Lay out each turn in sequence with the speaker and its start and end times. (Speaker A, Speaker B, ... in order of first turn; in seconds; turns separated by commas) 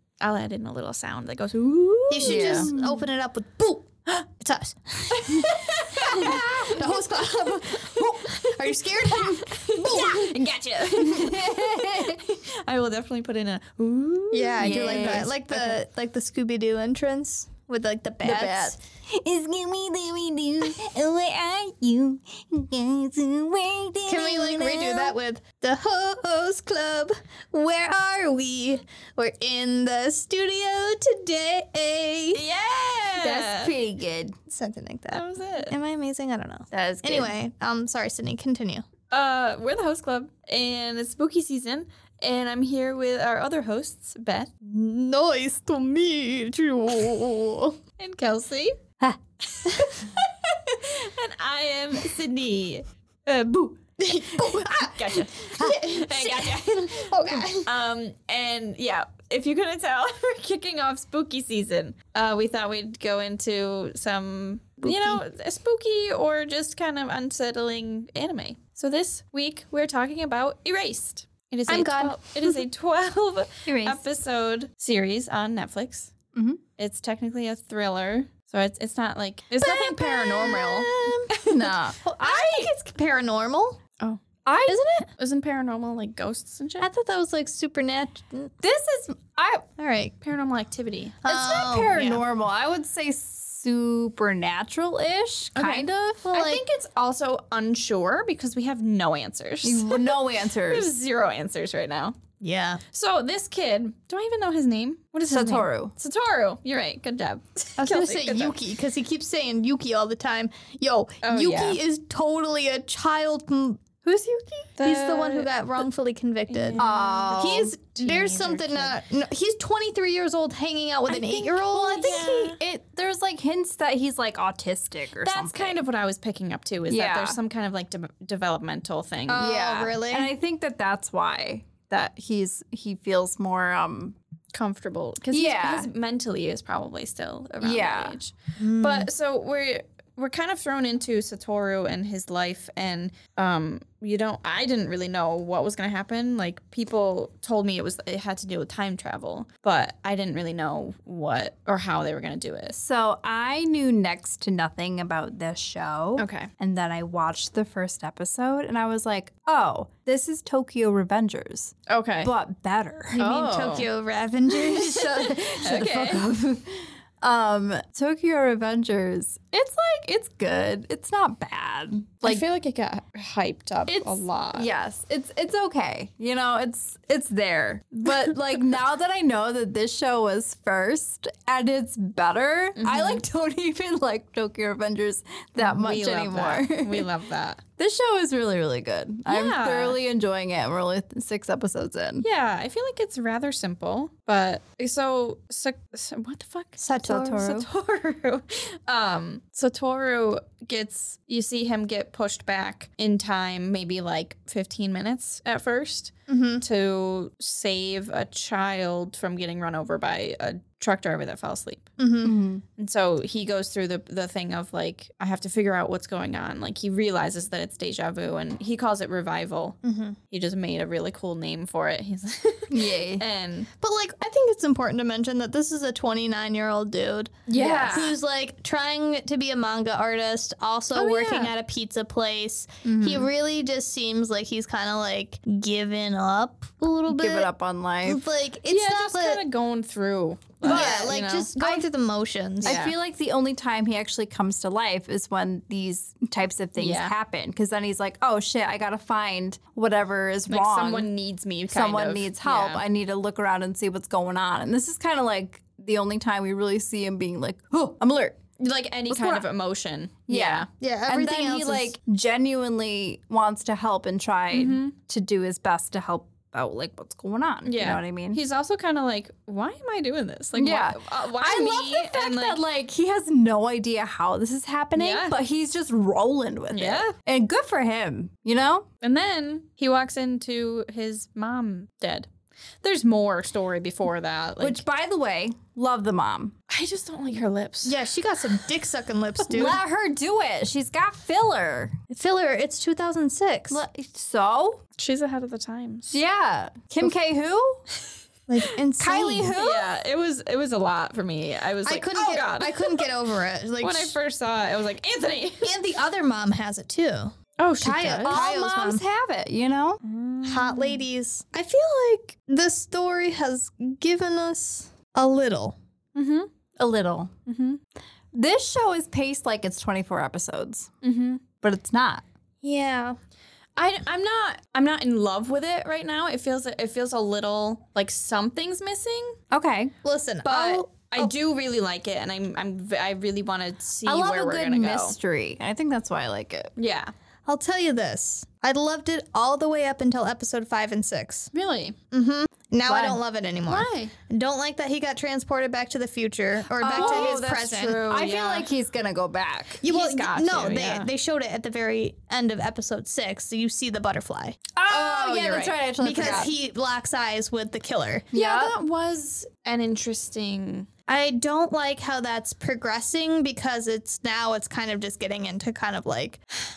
Speaker A: 0.2-2.7, Speaker B: 2.1-10.4, Speaker C: 2.2-3.1, Speaker A: 5.3-6.8, Speaker C: 6.2-6.9, Speaker A: 7.9-15.8, Speaker C: 10.9-12.4, Speaker B: 14.3-18.8, Speaker C: 14.6-15.3, Speaker C: 18.2-25.1, Speaker B: 24.1-32.4, Speaker A: 32.3-33.7, Speaker C: 33.2-34.4, Speaker B: 34.5-38.8, Speaker A: 35.1-35.7, Speaker C: 36.7-37.3, Speaker A: 39.1-44.5, Speaker B: 44.6-47.8, Speaker A: 48.0-48.8, Speaker A: 49.5-53.8, Speaker B: 54.0-57.7, Speaker A: 54.4-76.1, Speaker B: 64.8-65.2, Speaker B: 71.7-72.6, Speaker C: 73.7-74.0, Speaker C: 76.3-76.6, Speaker A: 76.8-82.7, Speaker B: 79.6-81.4, Speaker C: 81.4-82.0, Speaker B: 82.0-83.8, Speaker A: 84.0-86.9, Speaker C: 84.4-85.0, Speaker B: 86.8-88.5, Speaker C: 88.6-89.7, Speaker B: 89.8-90.1, Speaker A: 90.2-91.2, Speaker B: 91.2-92.2, Speaker C: 91.3-96.4, Speaker A: 95.5-102.2, Speaker B: 96.2-96.6, Speaker C: 99.6-100.9, Speaker B: 102.4-102.8, Speaker A: 102.9-108.6, Speaker C: 105.3-105.9, Speaker B: 107.8-122.3, Speaker A: 111.2-111.8, Speaker A: 114.8-115.5, Speaker A: 116.5-118.9, Speaker C: 116.8-117.7, Speaker C: 121.1-125.8, Speaker A: 121.9-122.6, Speaker A: 125.2-129.5, Speaker C: 126.9-127.4, Speaker B: 129.3-130.3, Speaker C: 129.3-134.2, Speaker A: 134.5-152.8, Speaker C: 135.3-135.9, Speaker C: 137.6-138.2, Speaker B: 138.6-139.1, Speaker C: 152.8-163.3, Speaker A: 156.2-156.5, Speaker A: 161.9-162.3, Speaker A: 163.1-163.9, Speaker B: 163.2-165.6, Speaker C: 164.5-172.4, Speaker A: 165.6-166.2, Speaker A: 172.2-174.7, Speaker C: 173.9-187.1, Speaker A: 182.8-183.2, Speaker A: 185.6-187.6, Speaker C: 187.8-192.2, Speaker A: 189.3-190.0, Speaker A: 192.2-211.9, Speaker B: 196.8-197.6, Speaker C: 197.0-197.7, Speaker B: 206.3-206.6, Speaker B: 212.0-212.4, Speaker C: 212.2-212.6, Speaker A: 212.8-219.8, Speaker B: 219.8-220.2, Speaker A: 220.3-223.7, Speaker C: 222.7-223.2, Speaker B: 223.8-237.5, Speaker A: 227.5-228.2, Speaker C: 227.5-228.0, Speaker A: 230.9-231.5, Speaker C: 232.8-233.3, Speaker C: 237.1-238.2, Speaker B: 238.0-239.4, Speaker A: 238.7-241.6, Speaker C: 240.6-241.8, Speaker B: 240.6-242.8, Speaker C: 242.6-251.1, Speaker A: 242.6-242.9, Speaker A: 246.8-247.1, Speaker A: 250.5-252.8, Speaker C: 251.7-258.4, Speaker A: 258.6-260.7, Speaker C: 259.1-259.4, Speaker C: 260.3-268.4, Speaker B: 260.8-261.9, Speaker A: 264.5-264.9, Speaker A: 267.6-272.6, Speaker C: 270.6-278.9, Speaker A: 274.9-275.4, Speaker A: 276.7-277.1, Speaker A: 279.0-282.3, Speaker A: 282.8-284.8, Speaker C: 284.6-286.5, Speaker A: 286.7-288.0, Speaker B: 287.8-289.8, Speaker C: 289.5-292.0, Speaker B: 292.1-293.8, Speaker C: 293.7-294.8, Speaker A: 295.0-296.2, Speaker C: 296.1-297.8, Speaker B: 298.5-299.6, Speaker C: 299.0-299.9, Speaker A: 299.6-303.1, Speaker B: 301.8-304.1, Speaker A: 303.8-305.8, Speaker B: 305.6-309.0, Speaker A: 307.6-308.4, Speaker C: 308.2-310.0, Speaker A: 310.1-311.0, Speaker B: 310.4-315.8, Speaker A: 316.1-316.5, Speaker C: 316.8-317.3, Speaker A: 317.4-317.8, Speaker C: 318.3-320.9, Speaker A: 321.0-321.4, Speaker C: 321.6-322.2, Speaker B: 322.6-323.2, Speaker A: 323.8-329.4, Speaker C: 329.5-329.9, Speaker B: 330.0-331.3, Speaker A: 330.4-335.1, Speaker C: 334.0-336.7, Speaker A: 336.8-337.1, Speaker B: 337.4-341.5, Speaker A: 341.5-341.9, Speaker B: 342.1-348.0, Speaker C: 342.9-343.2, Speaker A: 343.6-344.1, Speaker A: 346.8-348.7, Speaker C: 346.8-347.4, Speaker C: 348.0-349.8, Speaker B: 349.8-354.6, Speaker A: 349.8-351.1, Speaker C: 354.8-356.5, Speaker A: 354.9-356.5, Speaker B: 356.0-358.3, Speaker C: 358.3-358.8, Speaker A: 358.3-360.9, Speaker B: 361.1-366.4